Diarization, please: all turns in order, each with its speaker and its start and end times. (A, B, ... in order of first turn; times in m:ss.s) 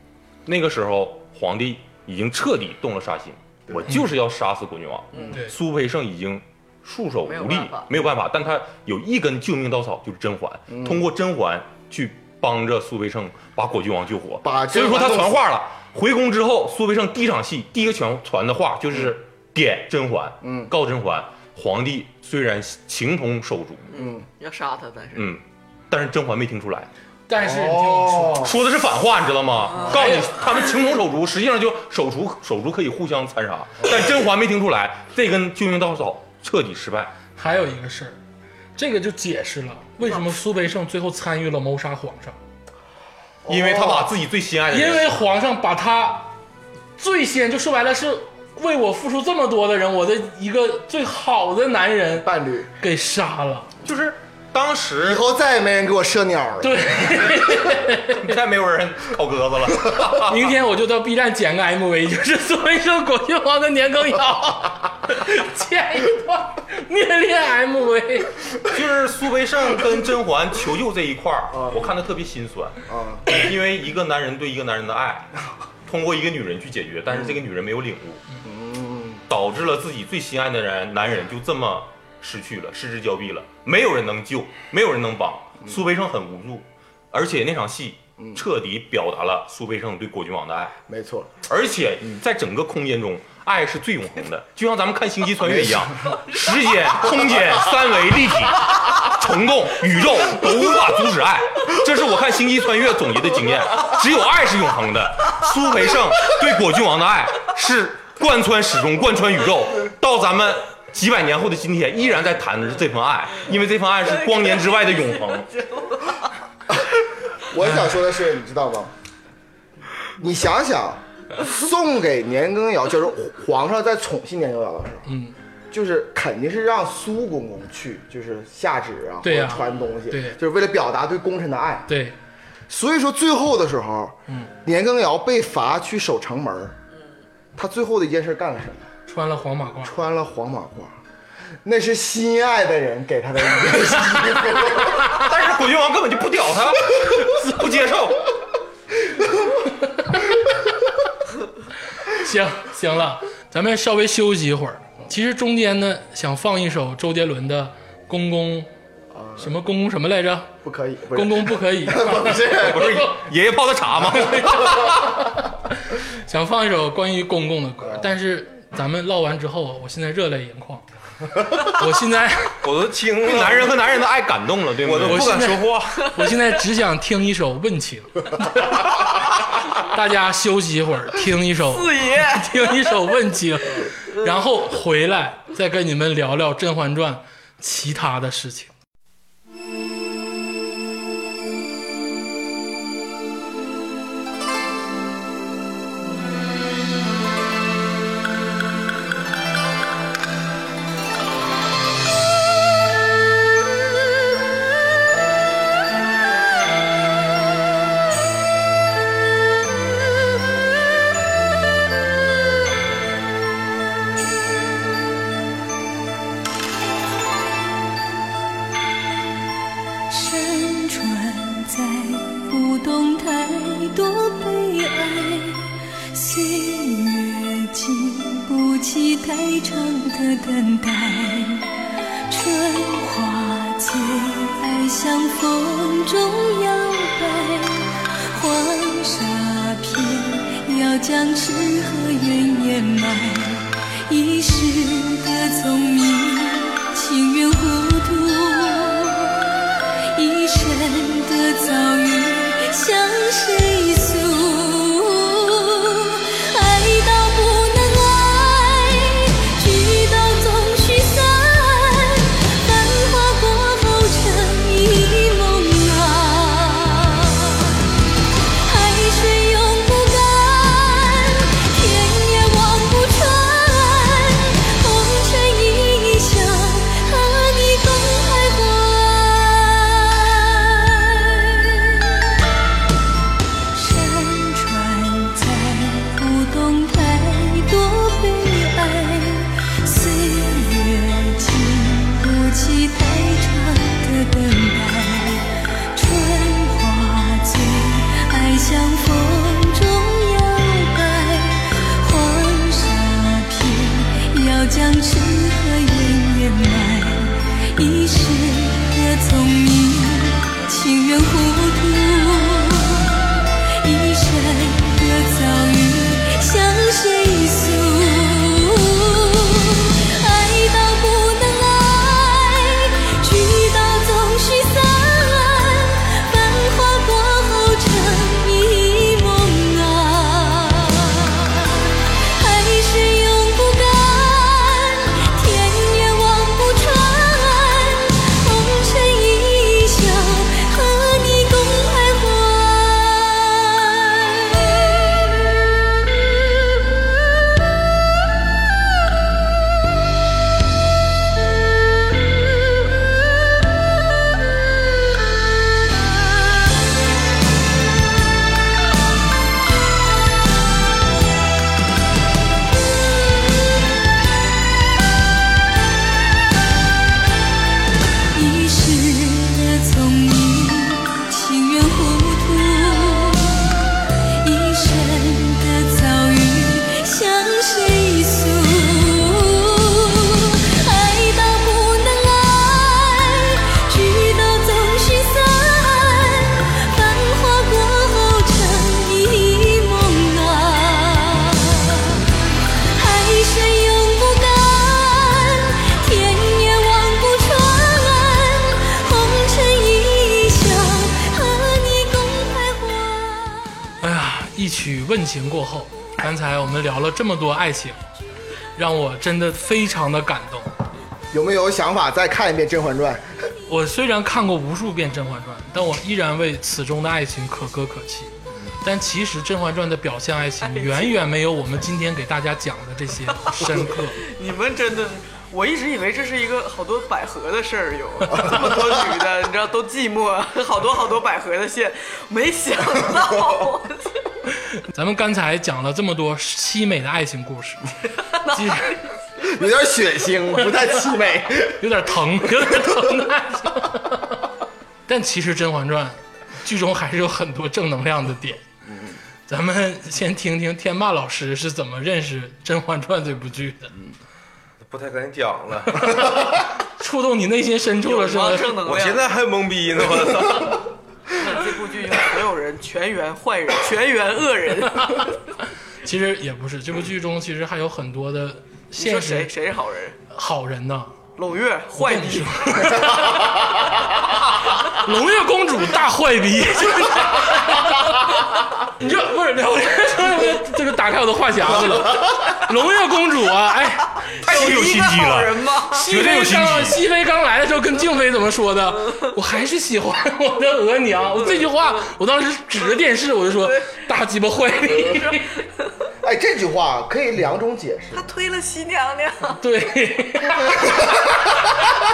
0:00.5-0:23.9 A
0:03.7-0:04.0 B
0:07.2-0:07.9 C
0:10.7-0:11.1 B
0:14.4-0:15.4 B
0:20.4-0:20.7 B
0:23.9-0:25.4 C
0:24.0-0:24.3 B
0:25.2-0:26.9 A
0:27.3-0:28.5 D
0:27.4-0:28.6 B
0:28.4-0:37.1 A
0:29.7-0:30.0 C
0:29.9-0:30.3 D
0:37.4-0:38.2 D
0:38.8-0:42.4 D
0:43.4-0:44.1 B
0:43.5-0:45.1 A
0:44.7-0:46.3 D
0:47.0-0:52.3 D
0:52.2-0:52.7 B
0:52.8-0:53.7 D
0:53.8-0:55.2 A
0:55.0-0:57.6 B
0:56.6-0:58.3 D
0:58.2-1:00.5 A
1:00.3-1:08.4 D
1:08.7-1:18.2 A
1:11.5-1:11.9 B
1:12.9-1:13.3 B
1:17.1-1:17.4 B
1:18.4-1:19.2 B
1:19.3-1:30.8 A
1:28.2-1:28.4 B
1:30.9-1:31.4 B
1:31.5-1:55.5 A
1:35.4-1:36.2 B
1:54.0-1:56.3 C
1:56.7-1:58.9 B
1:57.6-1:57.9 D
2:00.2-2:05.1 B
2:05.1-2:05.4 D
2:05.7-2:11.9 B
2:09.2-2:10.4 D
2:11.9-2:12.2 D
2:12.7-2:16.8 B
2:17.6-2:18.9 B
2:19.1-2:20.0 D
2:19.8-2:21.0 B
2:21.6-2:25.0 B
2:25.1-2:28.3 A
2:29.6-2:30.3 D
2:32.0-2:38.7 D
2:39.1-2:39.5 B
2:39.4-2:40.5 D
2:40.6-2:43.0 B
2:41.1-2:43.2 D
2:42.5-2:45.0 A
2:44.1-2:50.8 D
2:47.8-2:48.1 B
2:51.5-2:52.6 D
2:52.6-2:53.8 E
2:53.2-2:55.7 A
2:54.8-2:56.0 E
2:55.0-2:59.2 D
2:59.7-3:08.7 D
3:01.7-3:02.8 C
3:40.1-3:51.7 F
3:52.3-4:09.4 F
4:10.1-4:27.7 F
4:28.7-4:42.0 F
4:43.7-5:13.2 F
5:13.8-5:45.6 F
5:46.7-5:47.0 F
6:08.3-6:13.7 F
6:14.4-6:32.2 F
6:33.0-6:43.7 F
6:44.0-6:48.0 D
6:48.8-6:50.7 D
6:51.3-6:53.3 B
6:53.7-7:04.2 D
7:00.6-7:01.2 C
7:04.2-7:14.2 C
7:14.8-7:17.9 D
7:18.3-7:19.5 C
7:18.5-7:19.0 D
7:19.4-7:21.9 B
7:21.8-7:24.4 D
7:22.6-7:23.0 B
7:25.1-7:28.6 D
7:28.9-7:29.2 B
7:29.5-7:33.9 D
7:34.8-7:36.3 E
7:36.0-7:36.3 D
7:37.0-7:38.8 D
7:38.0-7:39.3 C
7:38.8-7:40.9 E
7:41.4-7:45.3 C
7:46.0-7:49.5 D
7:49.0-7:50.2 C
7:50.3-7:51.1 D
7:51.4-7:53.2 C
7:52.0-7:54.0 D
7:54.8-8:04.2 D
8:04.3-8:06.1 C
8:04.4-8:07.0 A
8:05.9-8:15.6 D
8:09.0-8:09.3 C
8:11.3-8:12.1 C
8:13.5-8:14.0 C
8:14.8-8:15.7 C
8:16.2-8:18.2 B
8:18.1-8:19.6 C
8:19.6-8:20.8 D